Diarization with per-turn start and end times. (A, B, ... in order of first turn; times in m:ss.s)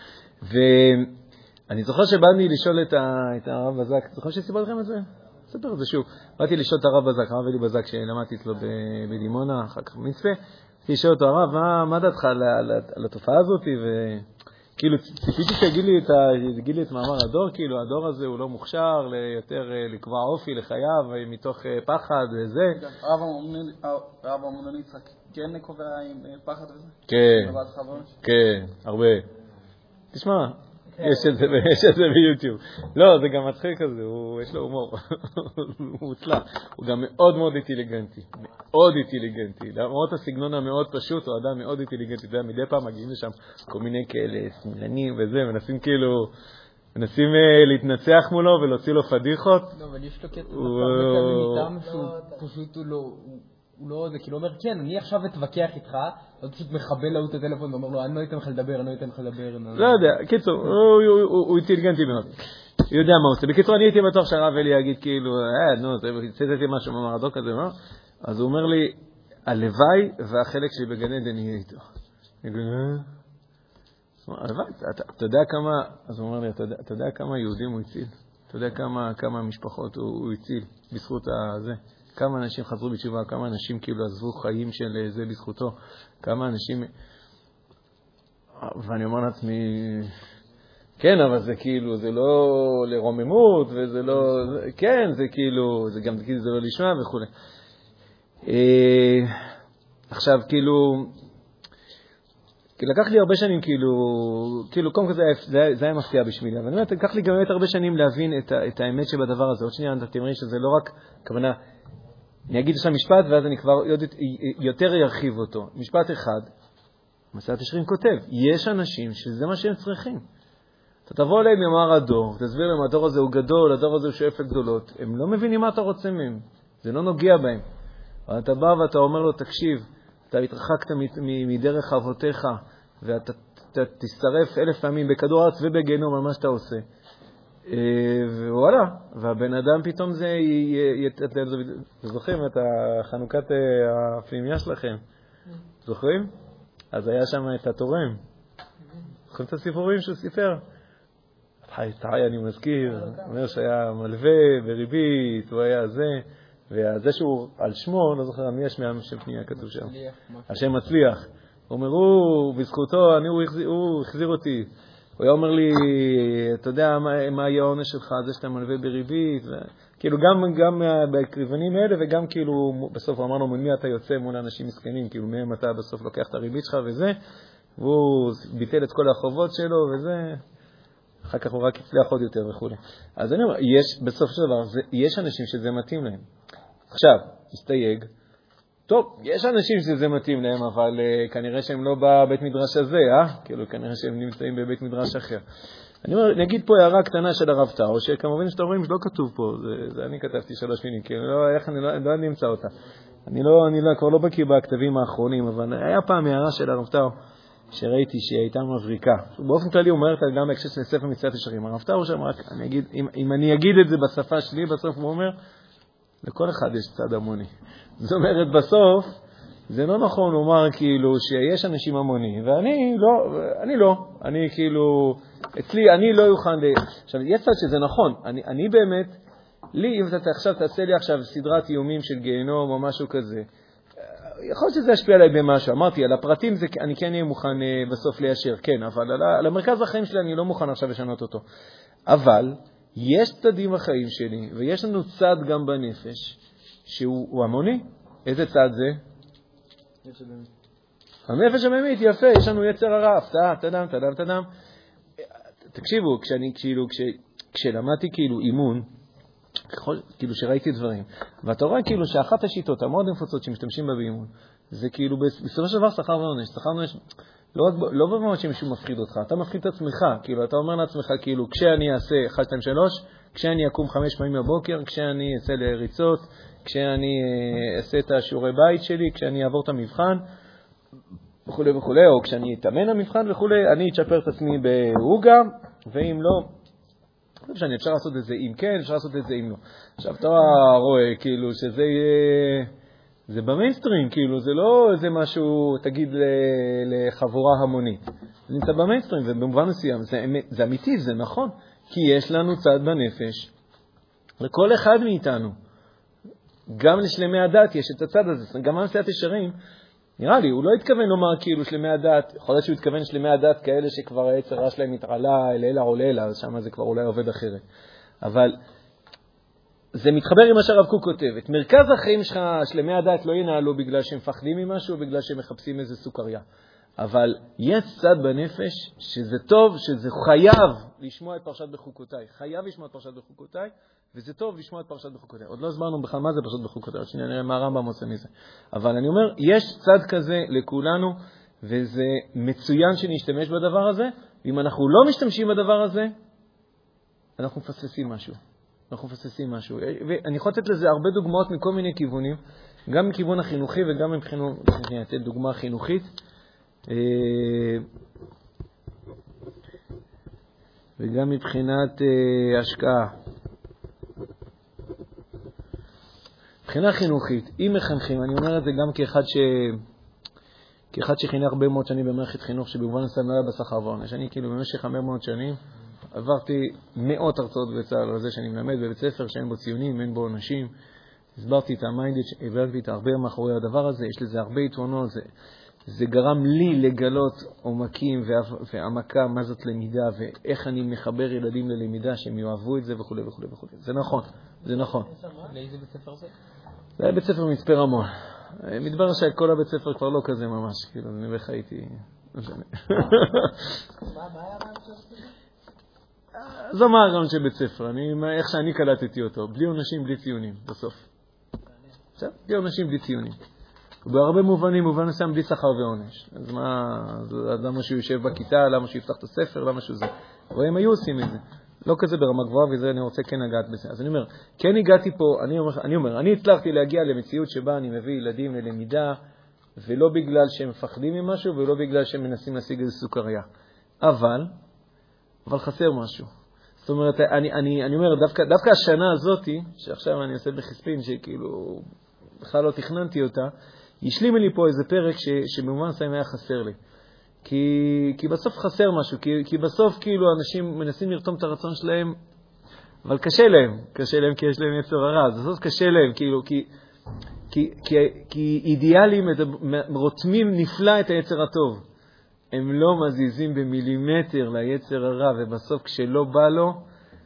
0:00.4-0:01.1 A
0:01.7-0:14.2 A
0:14.8-0:22.8 A
0:22.7-0:28.2 B
0:27.1-0:27.6 A
0:28.2-0:29.3 A
0:30.1-0:46.3 A
0:30.9-0:31.3 C
0:46.9-0:49.8 A
0:49.7-1:00.0 D
0:50.5-0:51.7 A
0:51.8-0:52.4 C
0:59.7-1:02.3 A
1:02.9-1:11.8 A
1:12.4-1:13.1 A
1:14.2-1:26.9 A
1:28.6-1:30.1 A
1:31.0-1:37.3 A
1:38.4-1:39.3 A
1:40.1-1:41.1 A
1:42.8-1:51.6 A
1:52.5-1:56.5 A
1:57.3-2:00.2 A
2:01.0-2:07.6 A
2:08.3-2:16.8 A
2:17.6-2:25.0 A
2:25.8-2:26.3 A
2:26.9-2:28.2 A
2:29.3-2:30.6 A
2:31.6-2:39.9 A
2:33.0-2:33.3 C
2:39.5-2:40.6 D
2:40.5-2:57.2 A
2:57.8-3:00.4 A
3:01.2-3:06.2 A
3:06.9-3:08.1 A
3:08.9-3:15.4 A
3:16.0-3:22.7 A
3:23.2-3:27.1 A
3:27.7-3:35.3 A
3:36.2-3:39.1 A
3:39.7-3:49.2 A
3:49.7-3:53.5 A
3:54.0-4:01.4 A
4:02.1-4:09.0 A
4:10.0-4:10.5 B
4:11.3-4:14.5 A
4:15.7-4:18.9 A
4:19.7-4:27.0 A
4:27.5-4:40.2 A
4:41.5-4:46.5 A
4:47.4-4:52.7 A
4:53.3-5:03.5 A
5:04.4-5:05.5 A
5:06.7-5:09.6 A
5:10.2-5:17.6 A
5:18.2-5:18.6 A
5:19.9-5:26.4 A
5:27.0-5:46.1 A
5:47.4-5:48.4 A
5:48.9-5:56.1 A
5:56.9-5:57.8 A
6:01.0-6:03.1 A
6:06.6-6:09.8 A
6:10.9-6:15.6 A
6:16.1-6:20.7 A
6:21.3-6:25.3 A
6:25.8-6:35.1 A
6:34.6-6:35.5 C
6:35.5-6:36.3 D
6:37.0-6:43.6 A
6:44.0-6:45.3 C
6:46.3-6:51.0 A
6:52.2-6:53.3 A
6:54.0-7:09.2 A
7:09.8-7:13.4 A
7:14.0-7:14.5 A
7:15.4-7:16.3 A
7:16.8-7:21.8 A
7:22.4-7:26.8 A
7:27.4-7:32.2 A
7:33.0-7:36.7 A
7:37.5-7:41.8 A
7:42.5-7:46.8 A